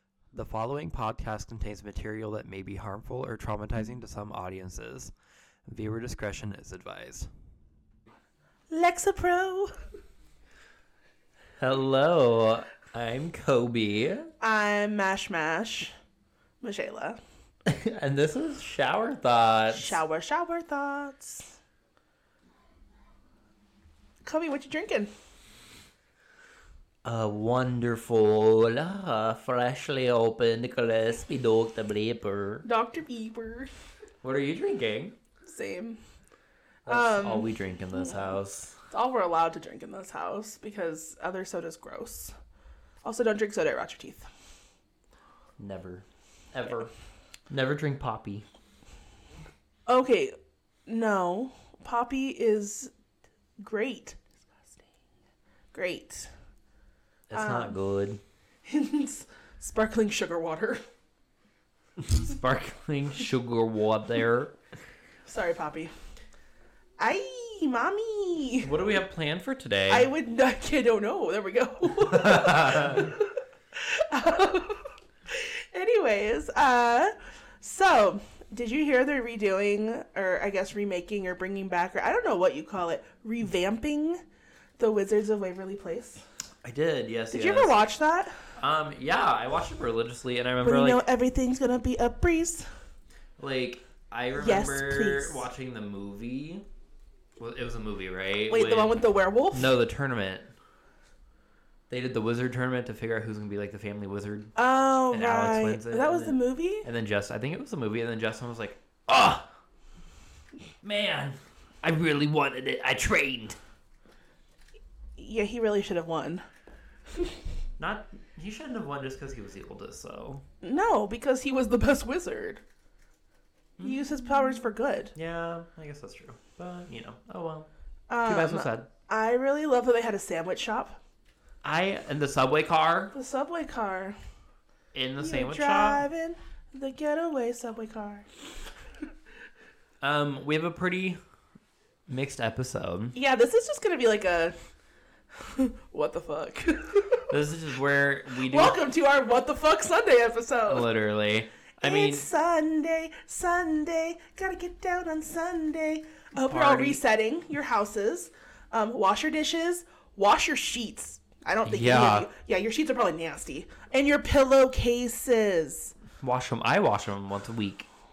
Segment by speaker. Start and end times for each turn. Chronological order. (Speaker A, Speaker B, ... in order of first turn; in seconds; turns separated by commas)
Speaker A: 0.3-5.1, Speaker A: 5.7-7.3, Speaker B: 8.7-9.7, Speaker A: 11.6-14.3, Speaker B: 14.4-15.9, Speaker B: 16.6-17.2, Speaker A: 17.7-20.0, Speaker B: 19.7-21.6, Speaker B: 24.2-25.1, Speaker A: 27.1-32.7, Speaker B: 32.6-33.7, Speaker A: 34.2-35.1, Speaker B: 35.4-36.0, Speaker B: 36.9-37.5, Speaker A: 36.9-38.8, Speaker B: 38.9-42.3, Speaker B: 43.0-44.3, Speaker A: 45.6-46.9, Speaker A: 47.5-48.5, Speaker B: 49.9-52.9, Speaker B: 53.6-54.9, Speaker B: 55.7-56.3, Speaker A: 57.3-58.2, Speaker B: 57.3-57.8, Speaker B: 58.6-60.8, Speaker A: 62.0-64.6, Speaker B: 65.3-65.9, Speaker B: 67.0-68.7, Speaker A: 68.6-70.1, Speaker B: 69.9-84.2, Speaker A: 72.1-73.0, Speaker B: 84.8-86.2, Speaker A: 86.6-87.7, Speaker B: 87.3-88.5, Speaker A: 88.6-91.0, Speaker B: 90.6-92.7, Speaker A: 93.4-96.7, Speaker B: 94.4-95.5, Speaker A: 97.4-99.0, Speaker B: 98.5-99.7, Speaker A: 99.5-100.5, Speaker A: 101.9-104.5, Speaker B: 104.6-106.9, Speaker A: 105.1-109.5, Speaker A: 110.8-113.6, Speaker B: 115.2-116.5, Speaker A: 117.8-120.4, Speaker B: 120.6-122.6, Speaker B: 123.8-125.1, Speaker A: 125.2-127.7, Speaker B: 128.1-131.0, Speaker A: 128.2-128.9, Speaker A: 131.6-133.1, Speaker B: 133.1-134.2, Speaker A: 134.9-136.1, Speaker B: 135.2-138.3, Speaker A: 140.0-141.2, Speaker A: 142.1-143.2, Speaker B: 143.1-144.6, Speaker B: 145.3-147.3, Speaker A: 147.3-148.8, Speaker B: 148.4-150.9, Speaker A: 150.7-152.3, Speaker B: 151.8-166.0, Speaker A: 156.4-157.0, Speaker A: 161.7-162.3, Speaker A: 166.2-167.9